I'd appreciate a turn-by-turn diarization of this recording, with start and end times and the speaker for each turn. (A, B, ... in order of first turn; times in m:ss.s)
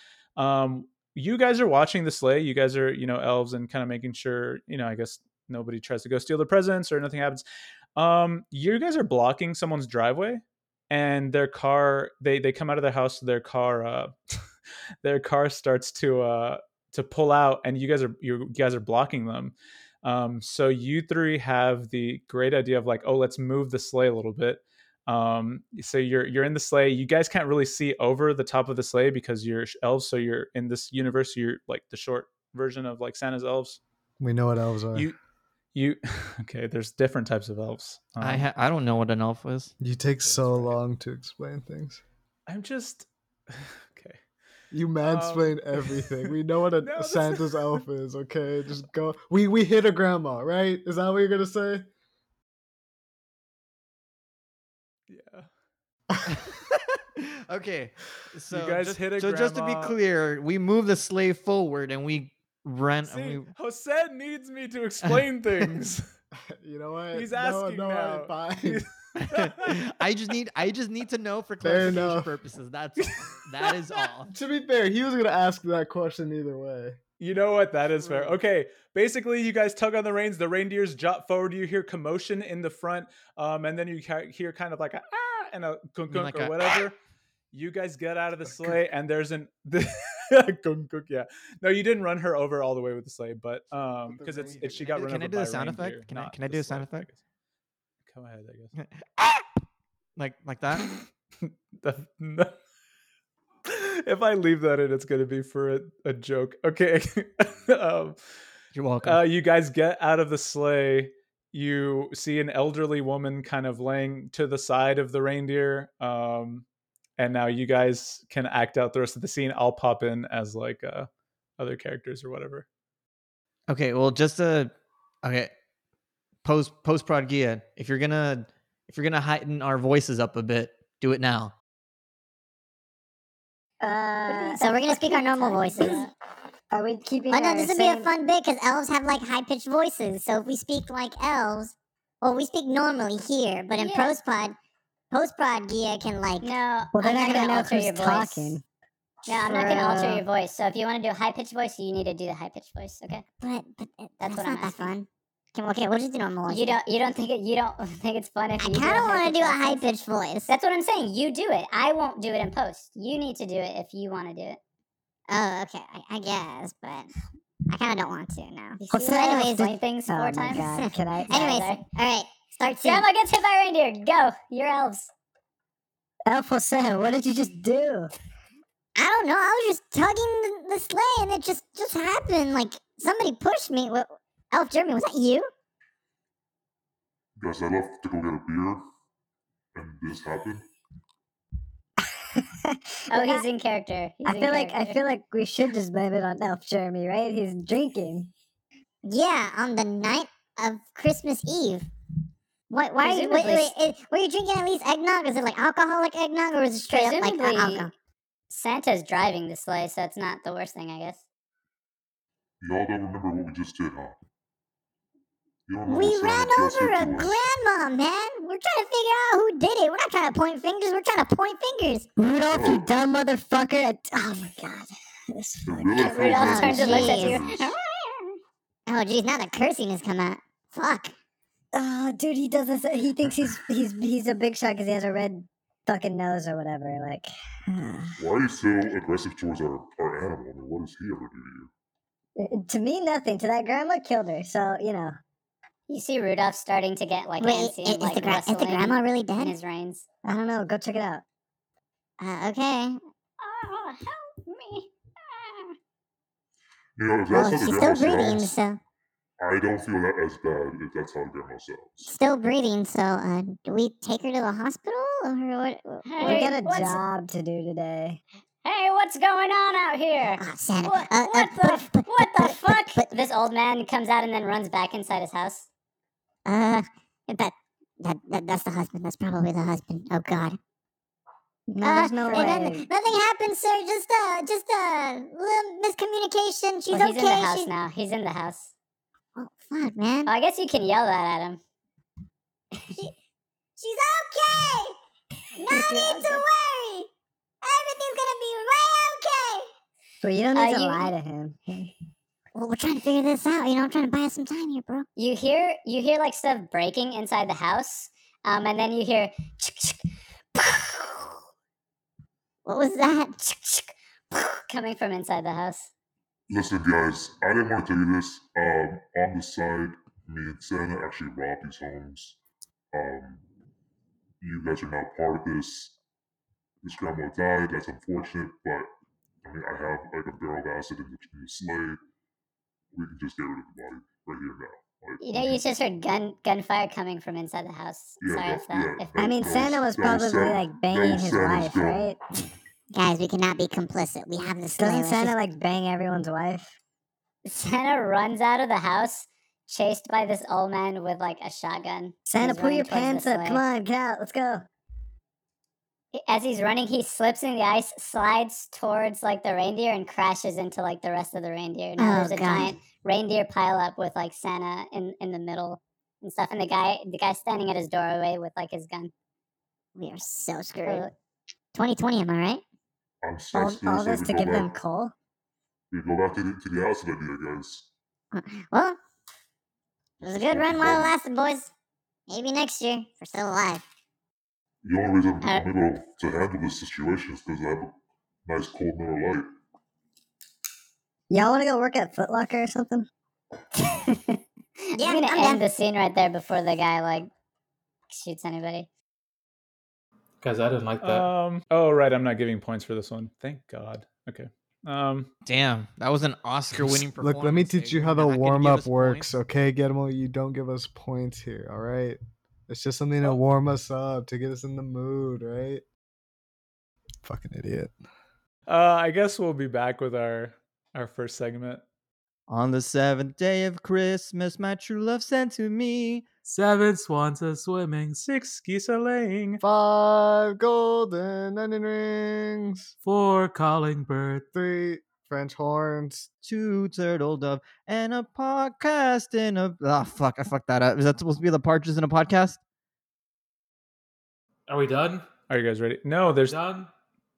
0:00.4-0:07.4 A
0:08.0-0:14.1 A
0:15.0-0:33.8 A
0:34.2-0:35.1 B
0:35.8-0:38.5 A
0:38.2-0:39.7 C
0:39.8-0:42.0 B
0:40.2-0:40.8 A
0:42.5-0:44.2 A
0:44.7-0:51.9 B
0:45.0-0:47.8 A
0:55.1-0:55.5 A
0:56.3-1:03.5 C
0:58.5-1:00.0 A
1:03.0-1:06.1 A
1:06.5-1:08.8 B
1:07.1-1:09.8 A
1:09.2-1:14.3 C
1:11.6-1:12.3 B
1:13.1-1:13.7 A
1:14.3-1:17.0 B
1:17.2-1:27.0 A
1:26.1-1:26.8 C
1:27.5-1:37.2 A
1:34.1-1:35.0 B
1:34.8-1:37.1 C
1:38.0-1:38.7 A
1:38.8-1:39.4 C
1:40.2-1:40.9 C
1:40.8-1:42.6 A
1:43.7-1:48.2 A
1:48.7-1:49.3 C
1:49.0-1:56.7 A
1:57.2-2:02.7 A
2:03.7-2:05.5 C
2:06.4-2:11.5 C
2:13.8-2:14.7 D
2:14.3-2:16.1 E
2:14.6-2:16.0 F
2:16.7-2:18.1 D
2:17.3-2:24.6 F
2:23.7-2:24.2 E
2:25.1-2:26.5 F
2:26.4-2:28.6 E
2:26.9-2:28.6 D
2:27.0-2:27.6 F
2:29.3-2:33.2 E
2:29.3-2:30.2 D
2:33.4-2:36.8 F
2:34.2-2:34.9 E
2:36.5-2:39.9 E
2:38.6-2:40.5 F
2:40.5-2:44.6 E
2:45.3-2:47.1 F
2:47.7-2:49.7 F
2:48.8-2:50.7 E
2:50.1-2:51.6 D
2:50.8-2:53.0 F
2:51.3-2:51.8 E
2:52.6-2:55.1 E
2:56.3-2:58.1 D
2:59.0-3:05.5 F
3:07.4-3:08.8 G
3:09.7-3:10.6 G
3:13.1-3:13.4 D
3:13.1-3:15.0 E
3:14.2-3:18.3 D
3:19.0-3:21.8 F
3:22.7-3:27.9 F
3:23.0-3:23.7 E
3:26.9-3:27.9 E
3:28.5-3:31.2 E
3:32.6-3:34.2 G
3:35.7-3:37.4 G
3:35.9-3:42.1 F
3:42.2-3:46.1 D
3:42.5-3:42.9 G
3:45.6-3:47.7 G
3:46.0-3:48.4 E
3:46.2-3:47.4 F
3:48.9-3:51.1 F
3:51.7-3:58.2 D
3:58.2-4:01.7 G
4:02.4-4:05.2 D
4:05.9-4:10.1 E
4:07.4-4:09.6 F
4:10.2-4:11.2 D
4:12.2-4:13.0 F
4:13.4-4:15.8 E
4:17.0-4:18.5 G
4:17.3-4:18.8 F
4:19.4-4:22.1 G
4:22.0-4:26.4 F
4:26.1-4:27.0 E
4:26.2-4:28.2 D
4:28.6-4:35.7 E
4:30.4-4:33.1 F
4:36.5-4:40.6 F
4:41.7-4:47.7 F
4:41.8-4:42.9 D
4:42.3-4:42.7 E
4:46.9-4:48.7 E
4:49.4-4:50.3 F
4:50.3-4:51.6 E
4:53.8-4:55.0 F
4:55.6-4:56.4 E
4:55.7-4:57.1 F
4:57.6-4:59.7 F
5:00.2-5:01.9 D
5:00.5-5:01.1 E
5:02.6-5:05.1 F
5:05.2-5:10.0 E
5:12.6-5:14.6 F
5:14.7-5:15.9 E
5:16.5-5:22.4 G
5:22.9-5:23.4 G
5:24.4-5:26.0 G
5:26.8-5:28.9 G
5:29.4-5:32.0 G
5:32.9-5:35.6 G
5:35.2-5:39.2 E
5:38.2-5:42.1 G
5:39.2-5:42.2 D
5:42.9-5:45.4 F
5:44.8-5:46.7 D
5:47.5-5:53.6 E
5:52.2-5:54.6 D
5:56.1-6:09.1 E
6:02.0-6:02.8 F
6:10.0-6:11.1 F
6:10.9-6:11.1 E
6:11.8-6:12.6 F
6:13.2-6:14.7 G
6:13.5-6:15.1 D
6:15.9-6:17.9 G
6:18.3-6:19.0 F
6:20.2-6:21.7 F
6:20.3-6:21.1 G
6:22.3-6:23.8 F
6:24.8-6:28.0 G
6:28.5-6:29.5 G
6:31.3-6:33.1 D
6:34.9-6:37.3 E
6:35.0-6:35.6 F
6:38.1-6:38.9 E
6:40.4-6:41.3 H
6:41.0-6:45.3 A
6:45.4-6:49.3 C
6:46.8-6:55.8 B
6:57.2-6:58.0 B
6:58.7-7:01.8 A
7:02.5-7:06.2 C
7:06.4-7:08.2 H
7:08.2-7:09.6 A
7:09.6-7:12.9 B
7:13.0-7:14.5 H
7:14.5-7:16.3 B
7:16.4-7:22.6 C
7:24.7-7:25.3 H
7:25.5-7:26.6 A
7:26.4-7:26.9 H